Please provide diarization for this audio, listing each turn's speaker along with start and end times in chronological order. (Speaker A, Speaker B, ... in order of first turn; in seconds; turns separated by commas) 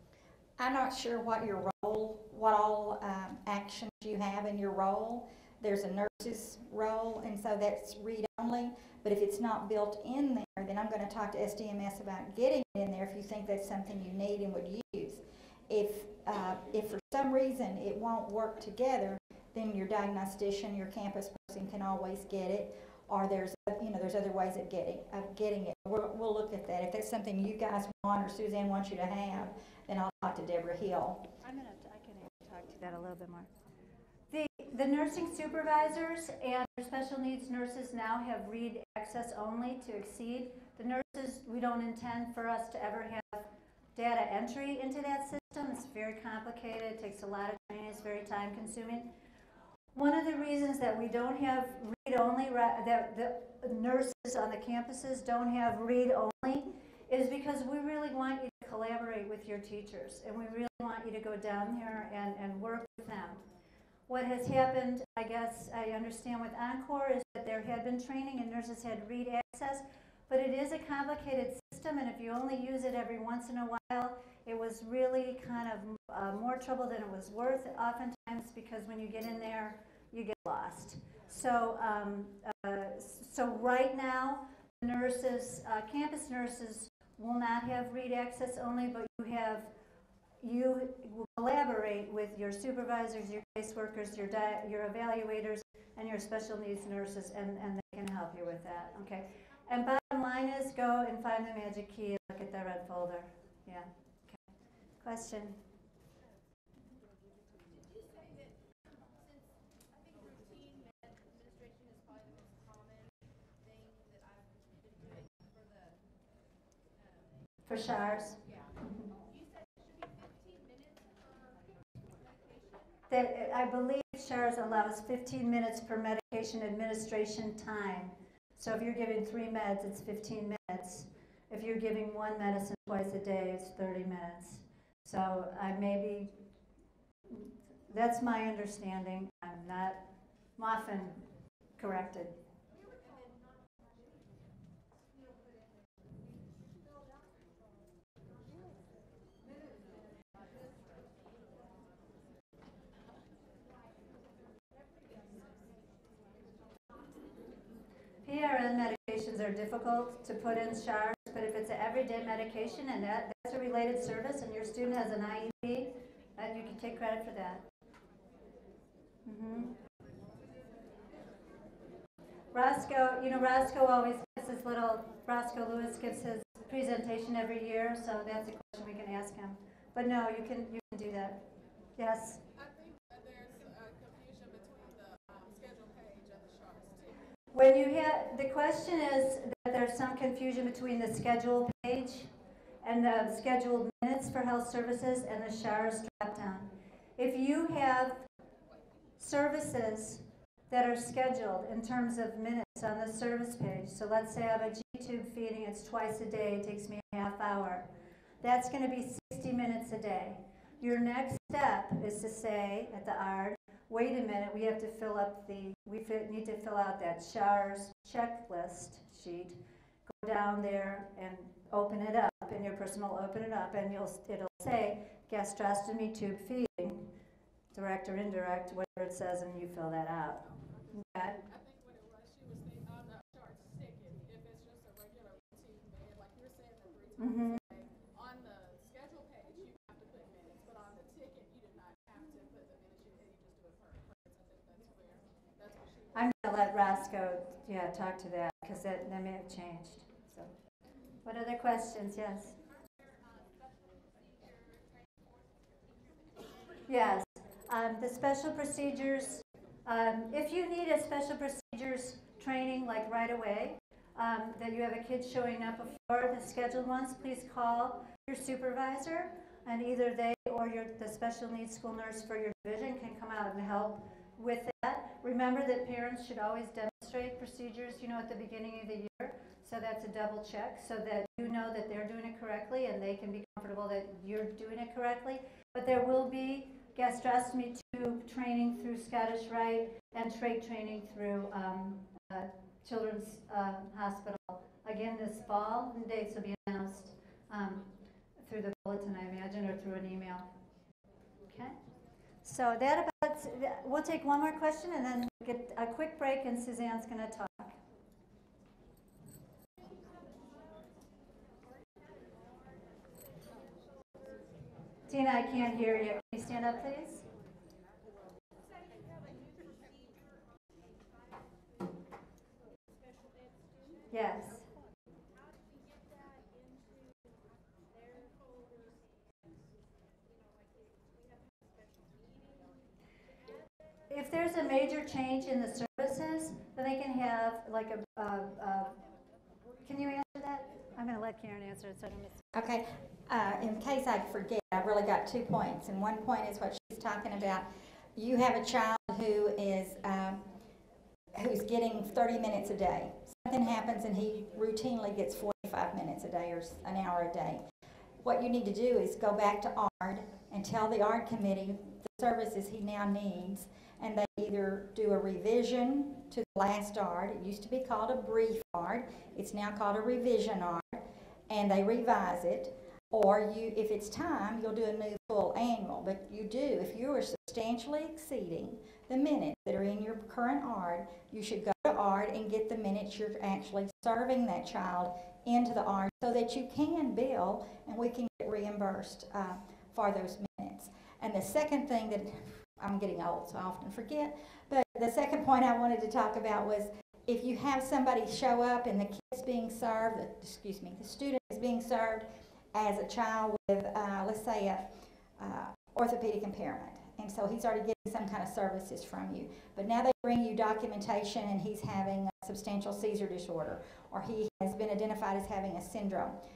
Speaker A: 0.6-31.3, Speaker B: 31.4-33.5, Speaker B: 34.3-49.1, Speaker B: 49.9-63.5, Speaker B: 64.1-89.7, Speaker B: 90.4-104.5, Speaker B: 105.0-105.6, Speaker C: 107.7-108.6, Speaker C: 109.2-116.0, Speaker C: 117.0-117.6, Speaker B: 117.7-119.1, Speaker C: 119.2-123.0, Speaker B: 123.1-136.5, Speaker B: 137.3-142.4, Speaker C: 142.8-144.3, Speaker C: 145.2-145.5, Speaker C: 148.5-148.7, Speaker C: 150.3-152.0, Speaker C: 153.5-157.4, Speaker B: 158.2-167.7, Speaker B: 169.2-169.7, Speaker B: 172.5-181.5, Speaker B: 182.0-182.4, Speaker D: 182.6-187.1, Speaker B: 187.5-192.3, Speaker B: 192.8-198.3, Speaker B: 199.2-227.2, Speaker B: 227.7-231.4, Speaker D: 230.4-246.4, Speaker B: 237.2-237.6, Speaker B: 246.1-250.5, Speaker B: 251.2-252.6, Speaker C: 252.9-256.9, Speaker B: 256.9-300.5, Speaker B: 301.5-301.8, Speaker B: 302.4-307.8, Speaker C: 309.8-314.6, Speaker B: 315.1-317.3, Speaker C: 318.6-324.6, Speaker B: 324.1-324.7, Speaker C: 325.2-333.8, Speaker B: 334.1-339.0, Speaker B: 339.8-342.5, Speaker A: 342.5-350.5, Speaker A: 351.3-357.6, Speaker A: 358.2-416.4